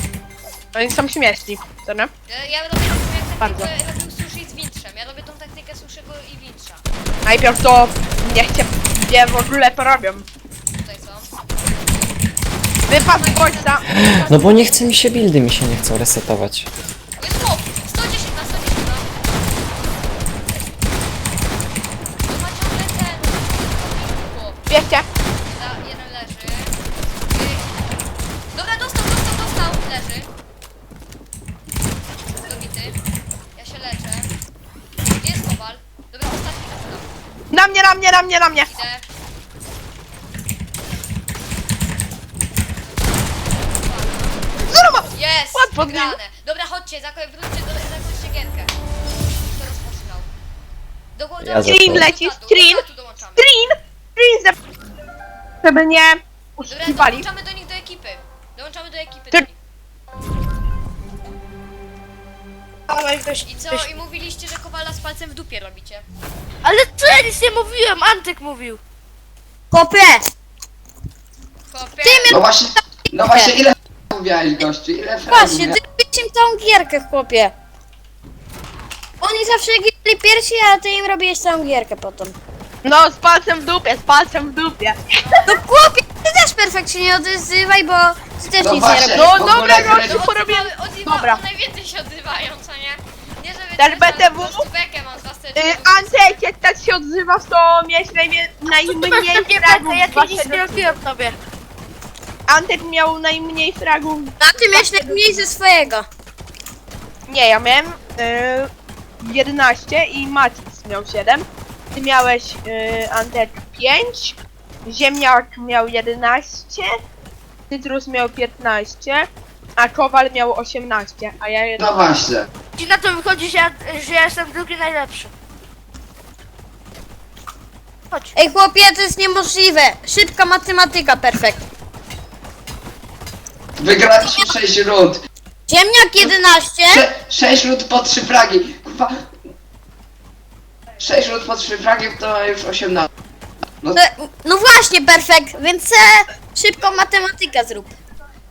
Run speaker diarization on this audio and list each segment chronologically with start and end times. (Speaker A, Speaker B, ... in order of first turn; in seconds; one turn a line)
Speaker A: 0.7-2.1
Speaker B: 2.3-6.8
Speaker A: 3.4-3.7
Speaker A: 7.2-10.2
Speaker B: 10.7-11.3
Speaker A: 12.9-14.0
Speaker B: 12.9-14.9
Speaker C: 13.9-16.7
Speaker B: 17.2-19.1
Speaker B: 22.2-24.7
Speaker A: 24.7-25.1
Speaker B: 25.3-26.8
Speaker B: 27.3-27.7
Speaker B: 28.5-30.3
Speaker B: 32.3-33.0
Speaker B: 33.5-34.3
Speaker B: 35.0-37.1
Speaker A: 37.5-38.7
Speaker B: 38.6-39.0
Speaker B: 42.7-44.6
Speaker A: 44.6-46.1
Speaker B: 45.1-48.7
Speaker B: 49.5-50.3
Speaker B: 51.1-53.5
Speaker C: 51.4-52.0
Speaker A: 51.6-54.5
Speaker A: 55.6-57.2
Speaker B: 56.7-59.6
Speaker D: 62.9-63.4
Speaker B: 63.4-66.0
Speaker E: 66.6-68.8
Speaker D: 69.7-70.3
Speaker B: 71.7-72.3
Speaker D: 72.0-72.4
Speaker F: 72.3-75.8
Speaker D: 73.0-73.6
Speaker D: 75.3-77.5
Speaker D: 79.2-82.3
Speaker A: 82.8-85.5
Speaker B: 85.1-85.5
Speaker D: 85.5-89.6
Speaker F: 88.6-90.2
Speaker A: 89.1-91.4
Speaker B: 89.5-96.4
Speaker A: 93.8-94.7
Speaker A: 95.5-101.0
Speaker E: 98.8-101.3
Speaker A: 102.5-105.2
Speaker D: 104.4-106.1
Speaker A: 107.3-108.7
Speaker A: 109.2-117.0
Speaker A: 117.7-122.0
Speaker F: 121.8-122.5
Speaker E: 122.8-125.3
Speaker D: 128.3-131.6
Speaker F: 133.8-135.2
Speaker D: 134.2-134.5
Speaker D: 135.7-137.1
Speaker F: 136.9-139.2
Speaker F: 141.0-143.1
Speaker D: 143.9-147.9